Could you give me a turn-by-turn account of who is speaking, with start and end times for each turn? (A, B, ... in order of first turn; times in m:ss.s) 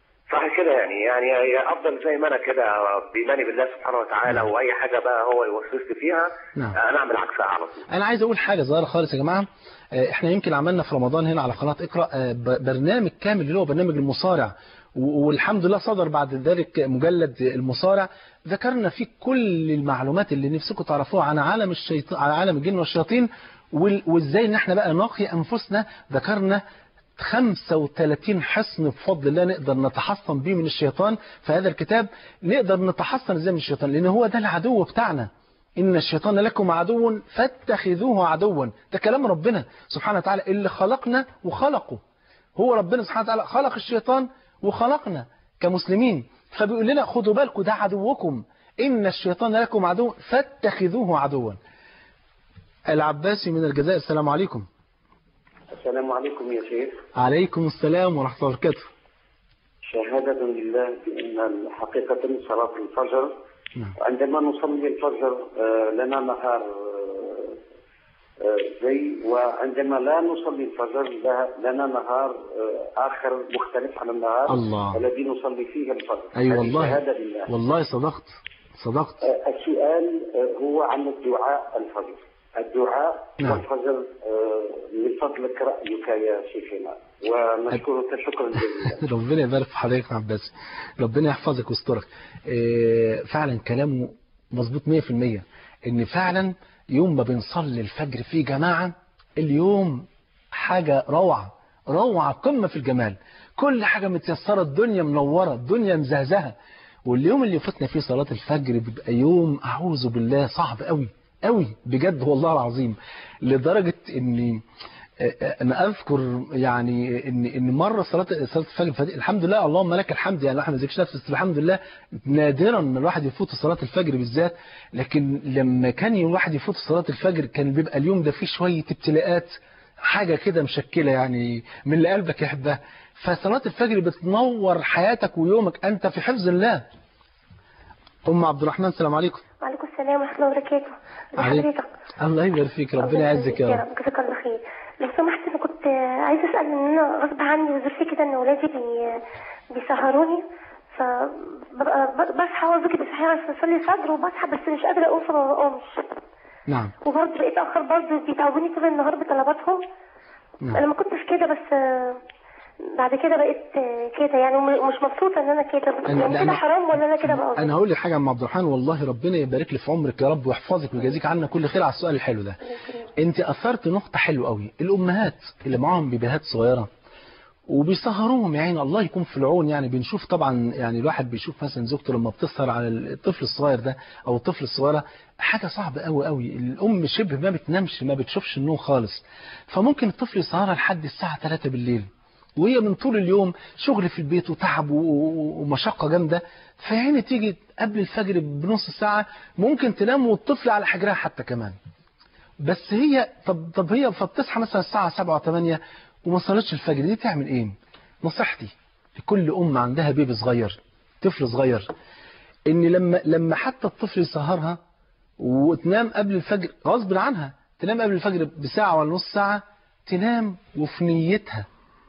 0:00.3-0:07.9 A
0:07.9-0:26.6 B
0:27.2-0:42.0 B
0:42.6-0:51.6 B
0:52.9-0:54.7 B
0:55.7-0:57.0 C
0:57.2-0:58.9 B
0:59.9-1:03.3 C
1:04.0-1:07.6 C
1:08.4-1:17.5 C
1:14.5-1:15.0 B
1:16.4-1:19.2 B
1:19.2-1:29.0 C
1:28.9-1:46.6 B
1:47.1-1:54.6 B
1:55.2-2:16.8 B
2:18.3-2:19.4 B
2:19.6-2:21.9 D
2:21.4-2:21.7 B
2:22.2-2:23.8 B
2:23.0-2:29.2 D
2:29.7-2:30.4 D
2:31.0-2:36.0 D
2:37.0-2:39.8 D
2:40.7-2:42.2 D
2:42.9-2:47.7 D
2:46.1-2:52.6 B
2:52.7-2:53.1 D
2:53.2-2:56.9 B
2:57.7-3:21.8 B
3:22.6-3:31.9 B
3:32.7-3:34.8 B
3:35.4-3:41.7 B